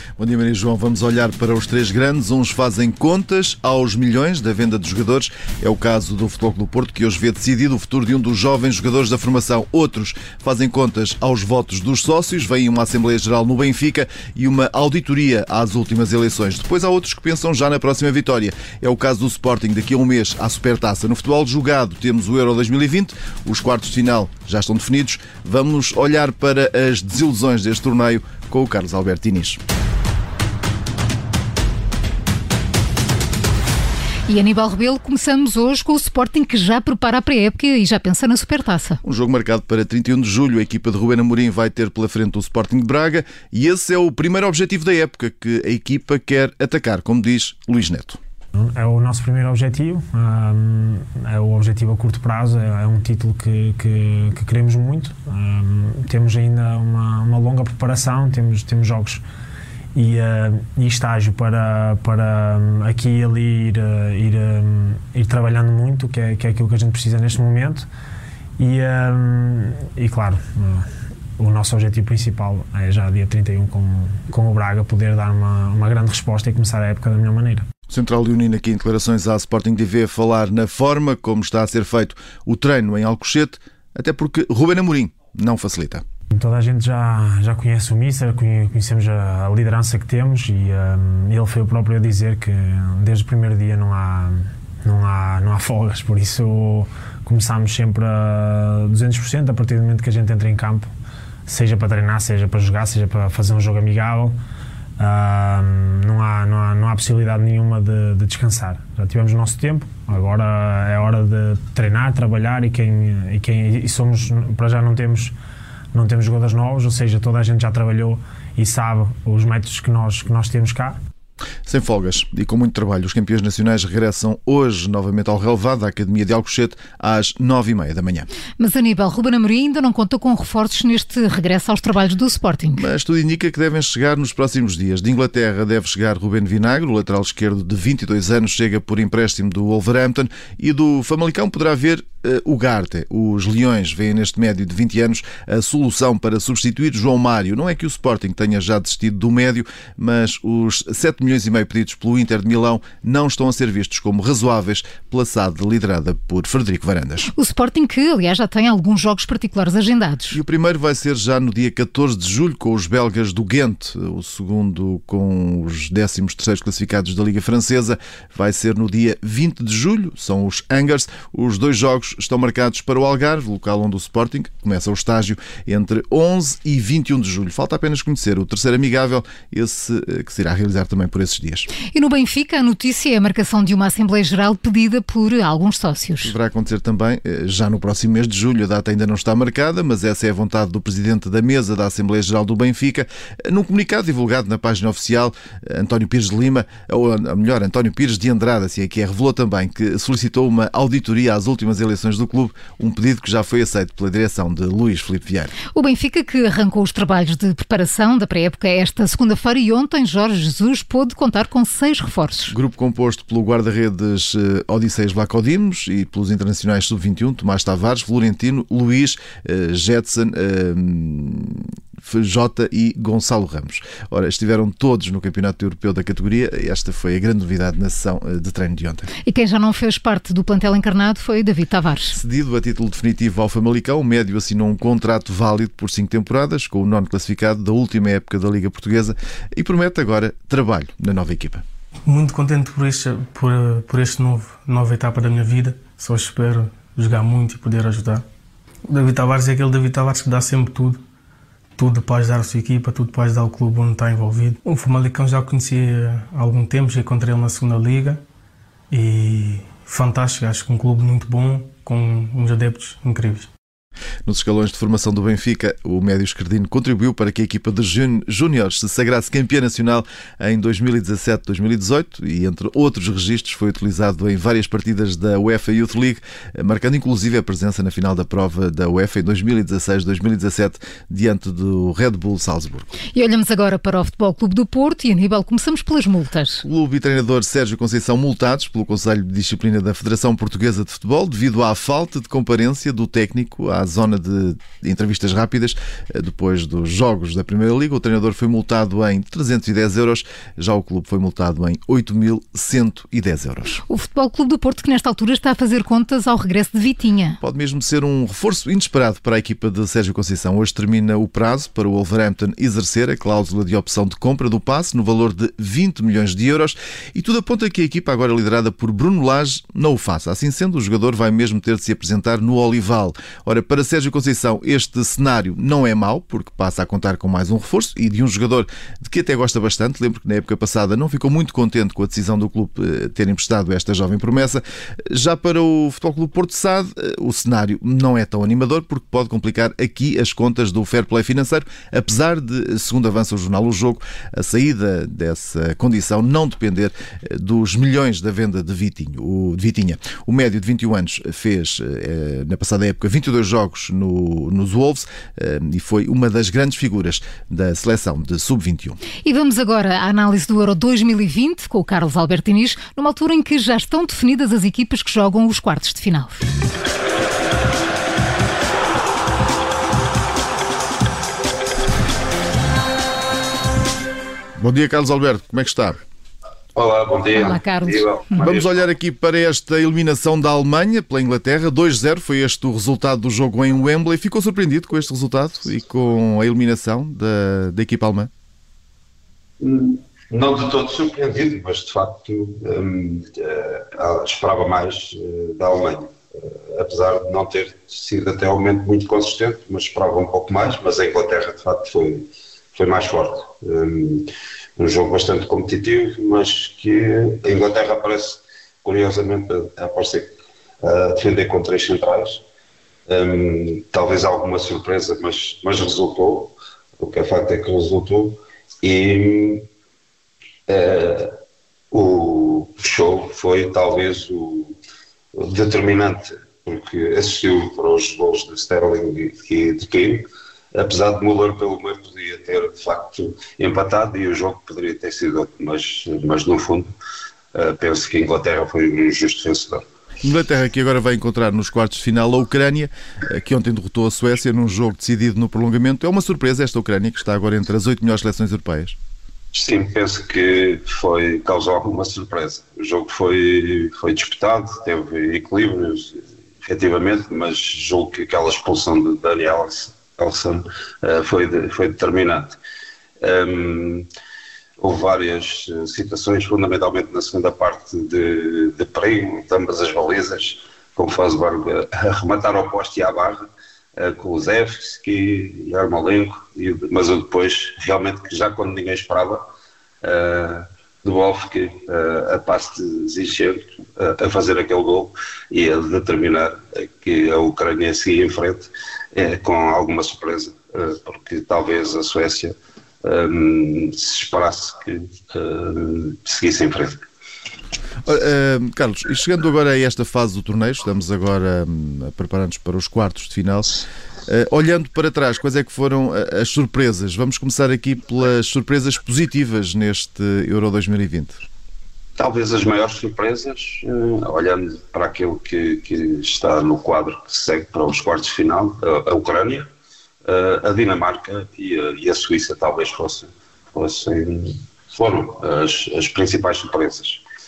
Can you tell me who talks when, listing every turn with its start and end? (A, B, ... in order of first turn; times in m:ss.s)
0:00.2-0:29.6 A
0:34.3-0:39.0 B
0:39.0-0:48.2 A
0:48.6-0:59.2 C
1:00.0-1:07.9 C
1:08.6-1:10.9 C
1:11.4-1:17.6 C
1:17.9-1:26.0 A
1:26.3-1:40.9 C
1:41.5-1:44.4 C
1:45.0-1:55.3 C
1:55.9-2:01.0 C
2:01.7-2:08.3 A
2:08.6-2:12.9 B
2:12.8-2:37.3 A
2:37.3-2:40.4 B
2:40.3-3:01.7 A
3:01.9-3:06.3 B
3:06.2-3:25.5 A
3:25.7-3:32.6 B
3:32.5-3:49.1 A
3:49.2-3:52.2 B
3:52.1-4:01.6 A
4:02.1-4:08.2 D
4:08.8-4:11.0 D
4:11.8-4:18.2 D
4:18.9-4:23.5 D
4:24.3-4:42.9 A
4:43.1-4:46.6 B
4:46.6-5:03.8 A
5:03.9-5:07.4 B
5:07.4-5:59.0 A
5:59.2-6:06.4 B
6:14.6-6:16.0 A
6:16.8-6:18.9 E
6:17.3-6:18.0 B
6:18.4-6:28.3 A
6:29.6-6:52.4 E
6:53.1-6:59.7 E
7:00.7-7:01.3 E
7:01.9-7:04.8 E
7:05.4-7:16.9 E
7:17.5-7:19.8 E
7:20.2-7:29.0 A
7:29.5-7:42.6 E
7:43.2-7:44.1 E
7:44.8-7:59.4 E
8:00.0-8:17.0 E
8:18.0-8:31.4 A
8:32.2-8:39.7 E
8:40.3-8:47.2 E